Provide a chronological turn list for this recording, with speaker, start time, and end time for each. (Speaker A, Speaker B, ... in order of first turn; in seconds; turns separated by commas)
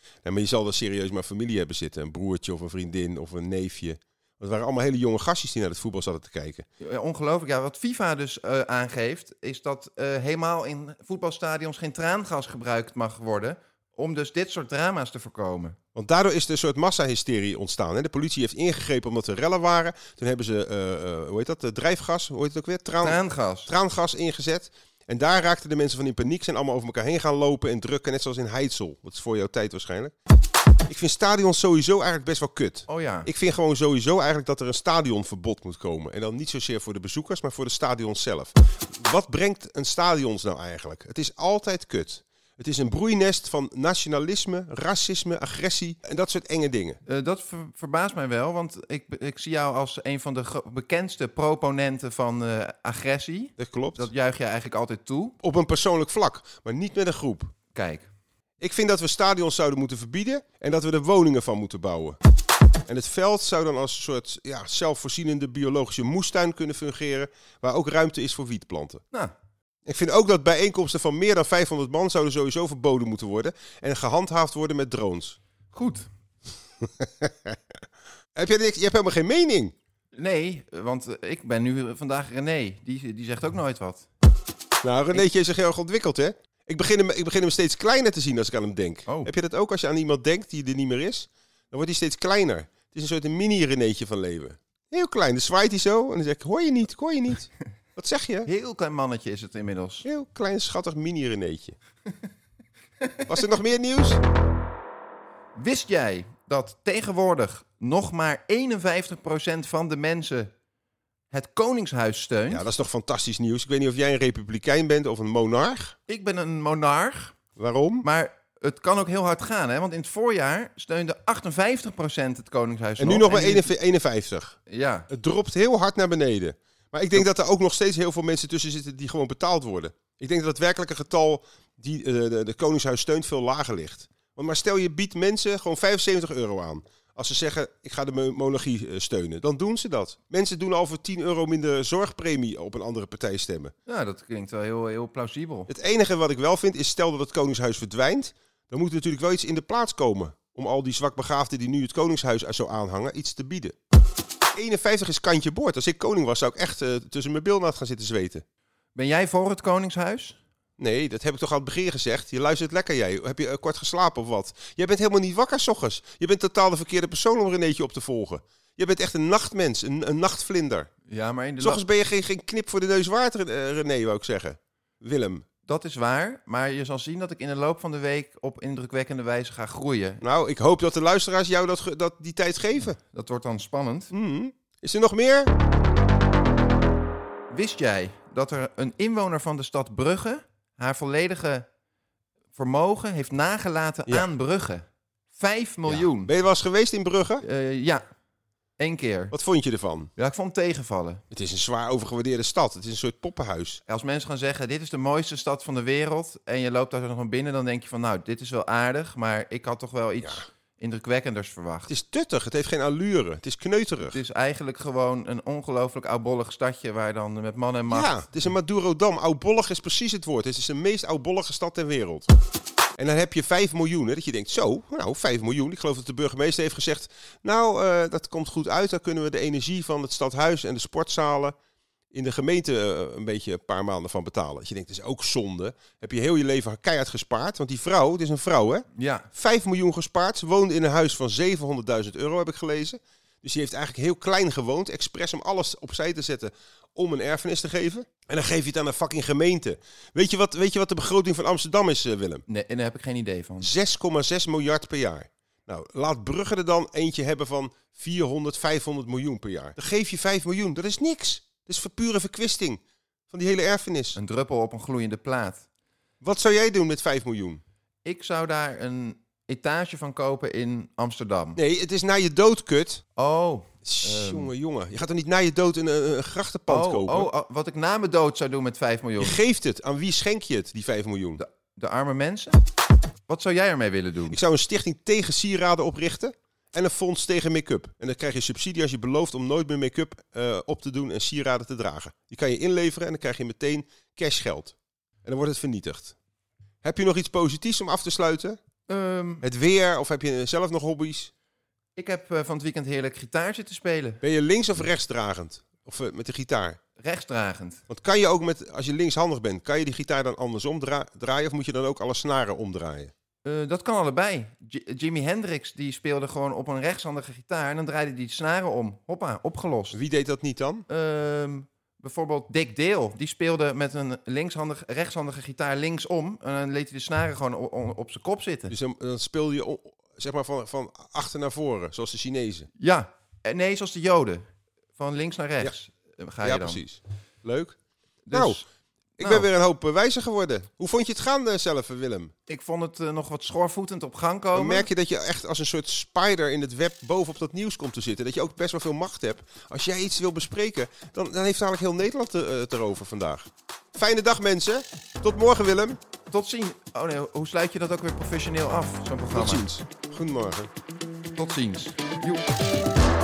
Speaker A: 0.2-6.7, Speaker B: 6.8-15.8, Speaker A: 15.9-30.1, Speaker B: 23.0-23.7, Speaker A: 30.9-47.0, Speaker B: 32.9-33.3, Speaker B: 47.1-55.4, Speaker A: 53.6-54.1, Speaker A: 55.4-57.5, Speaker B: 57.7-58.1, Speaker A: 58.6-62.2, Speaker A: 62.9-69.0, Speaker A: 69.9-75.4, Speaker B: 75.7-76.1, Speaker A: 77.0-77.5, Speaker A: 78.3-79.7, Speaker B: 80.1-84.1, Speaker A: 84.8-98.5, Speaker B: 89.1-89.3, Speaker B: 98.5-100.1, Speaker A: 100.0-101.8, Speaker A: 103.3-104.2, Speaker B: 105.5-110.5, Speaker B: 111.3-112.7, Speaker A: 112.5-116.0, Speaker B: 116.1-117.4, Speaker A: 117.6-118.1, Speaker B: 118.0-123.7, Speaker A: 123.0-124.6, Speaker B: 124.7-125.1, Speaker A: 125.1-143.7, Speaker B: 143.9-145.7, Speaker A: 145.7-153.8, Speaker A: 154.6-158.4, Speaker B: 158.9-160.4, Speaker A: 160.8-170.9, Speaker B: 171.1-171.8, Speaker A: 171.6-175.4, Speaker B: 175.7-180.2, Speaker A: 180.2-183.0, Speaker B: 183.1-184.1, Speaker A: 184.1-185.5, Speaker B: 187.5-191.7, Speaker B: 192.6-196.3, Speaker A: 195.9-197.4, Speaker B: 197.4-198.0, Speaker B: 198.8-199.3, Speaker A: 199.3-200.1, Speaker B: 200.2-201.2, Speaker A: 201.3-203.8, Speaker B: 203.9-211.9, Speaker A: 211.9-214.2, Speaker B: 214.1-218.1, Speaker A: 217.9-222.3, Speaker A: 223.0-231.6, Speaker A: 232.1-252.4, Speaker B: 238.9-239.3, Speaker B: 252.5-253.7, Speaker A: 253.6-262.8, Speaker A: 263.3-264.2, Speaker B: 264.1-265.6, Speaker A: 266.2-267.6, Speaker B: 268.1-271.6, Speaker A: 271.6-273.0, Speaker B: 273.2-274.5, Speaker A: 273.9-277.3, Speaker B: 276.7-279.4, Speaker A: 279.2-281.4, Speaker B: 281.4-282.6, Speaker B: 283.3-284.4, Speaker A: 284.3-296.1, Speaker A: 296.8-298.6, Speaker B: 298.9-299.4, Speaker A: 299.4-301.3, Speaker B: 302.0-304.2, Speaker A: 304.2-306.8, Speaker B: 307.0-307.8, Speaker A: 307.9-313.1, Speaker B: 313.4-320.0, Speaker A: 319.9-320.9, Speaker B: 320.9-328.7, Speaker A: 328.7-332.7, Speaker B: 332.8-334.4, Speaker B: 335.0-336.8, Speaker A: 336.4-337.8, Speaker B: 338.3-338.6, Speaker A: 338.3-338.6, Speaker B: 339.2-339.5, Speaker A: 339.2-342.3, Speaker B: 342.5-344.9, Speaker A: 344.5-356.0, Speaker B: 356.3-359.7, Speaker A: 359.3-360.7, Speaker B: 361.4-362.4